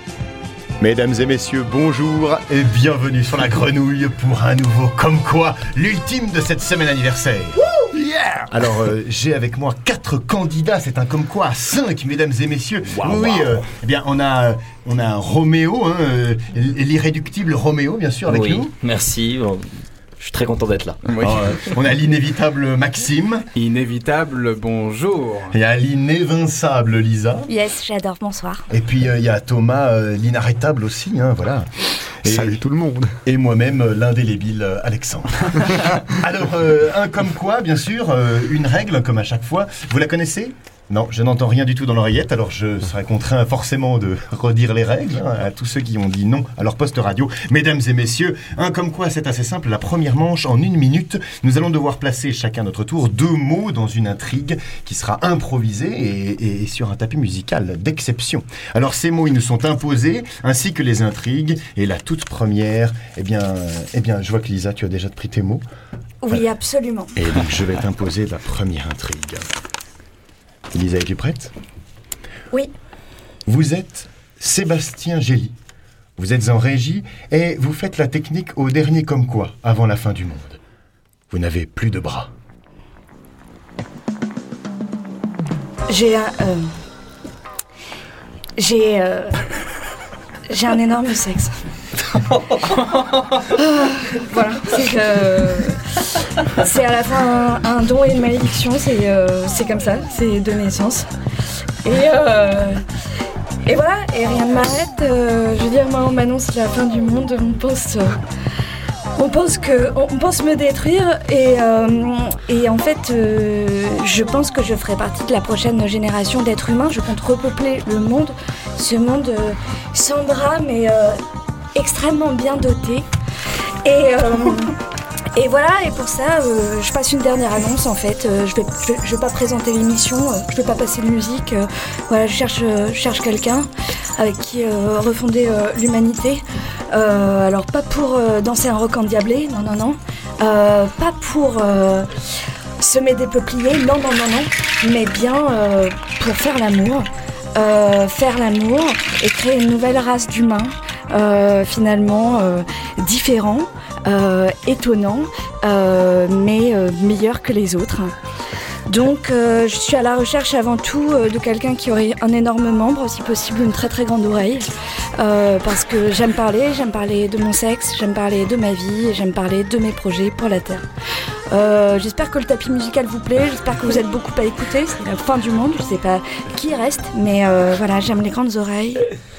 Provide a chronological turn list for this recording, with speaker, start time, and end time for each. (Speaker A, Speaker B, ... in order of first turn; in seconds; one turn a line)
Speaker A: 0.8-7.7
Speaker B: 7.7-8.5
Speaker A: 8.5-18.7
Speaker C: 13.0-13.4
Speaker C: 18.3-19.7
Speaker C: 20.2-21.0
Speaker D: 21.1-21.5
Speaker A: 21.2-23.4
Speaker D: 23.6-25.6
Speaker A: 25.5-27.5
Speaker E: 27.5-28.7
Speaker A: 28.7-31.7
Speaker A: 32.2-32.6
Speaker B: 32.2-33.2
Speaker A: 33.2-65.6
Speaker B: 35.7-36.0
Speaker E: 66.2-67.2
Speaker A: 67.2-69.5
Speaker A: 70.7-71.5
Speaker A: 73.5-75.5
Speaker A: 76.2-80.6
Speaker A: 81.3-82.3
Speaker E: 85.9-86.7
Speaker E: 88.6-89.4
Speaker E: 90.5-91.6
Speaker E: 93.3-101.1
Speaker E: 101.8-102.8
Speaker E: 103.7-108.2
Speaker E: 109.2-121.2
Speaker E: 121.8-123.1
Speaker E: 123.8-124.8
Speaker E: 125.3-142.1
Speaker E: 142.8-158.1
Speaker E: 158.9-170.9
Speaker E: 171.5-179.0